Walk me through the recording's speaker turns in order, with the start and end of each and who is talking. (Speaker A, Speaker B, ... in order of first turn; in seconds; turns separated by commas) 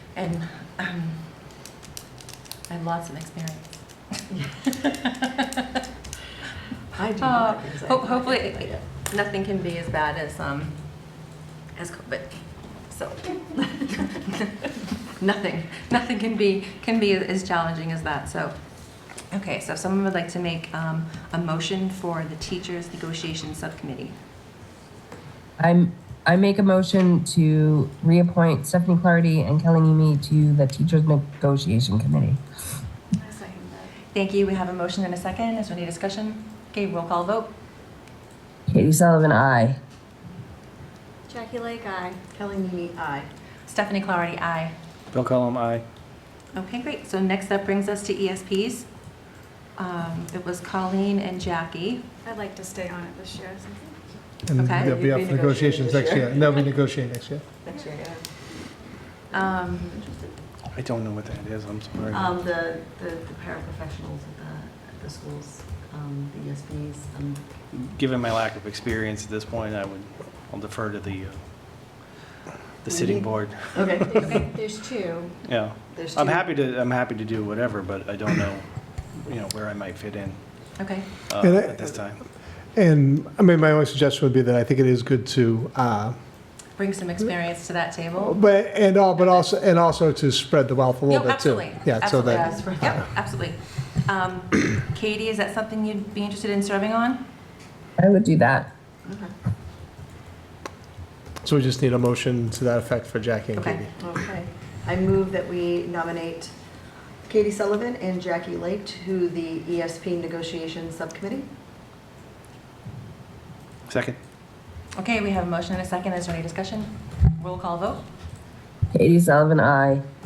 Speaker A: 0.2-1.2, Speaker A: 2.7-3.6, Speaker A: 4.7-5.8, Speaker B: 7.0-8.8, Speaker A: 7.2-10.8, Speaker A: 11.8-12.4, Speaker A: 12.9-13.2, Speaker B: 13.6-14.1, Speaker A: 15.2-18.5, Speaker A: 19.3-24.2, Speaker C: 25.6-32.4, Speaker D: 33.2-34.0, Speaker A: 34.1-37.5, Speaker C: 38.7-39.8, Speaker D: 41.3-42.2, Speaker B: 42.3-43.3, Speaker A: 43.7-44.8, Speaker E: 45.1-45.9, Speaker A: 46.5-48.9, Speaker A: 49.8-52.1, Speaker D: 52.2-54.0, Speaker F: 54.5-57.4, Speaker A: 54.6-54.9, Speaker B: 54.8-56.6, Speaker B: 57.6-58.2, Speaker B: 59.3-60.3, Speaker A: 59.3-59.9, Speaker E: 60.7-62.3, Speaker B: 62.1-67.4, Speaker E: 67.7-71.4, Speaker E: 72.8-74.4, Speaker B: 72.9-74.4, Speaker D: 74.2-75.3, Speaker E: 75.5-78.7, Speaker B: 75.9-76.5, Speaker E: 79.2-80.4, Speaker A: 80.8-81.1, Speaker E: 81.3-82.2, Speaker F: 81.4-82.0, Speaker F: 82.8-86.2, Speaker A: 86.8-88.4, Speaker F: 88.2-93.0, Speaker A: 91.1-97.2, Speaker B: 92.3-93.0, Speaker C: 98.0-98.7, Speaker B: 99.1-99.3, Speaker F: 101.4-104.0, Speaker A: 103.5-103.8, Speaker B: 104.0-106.5, Speaker B: 107.3-111.5, Speaker E: 113.9-114.2, Speaker A: 115.0-118.0, Speaker C: 118.9-120.0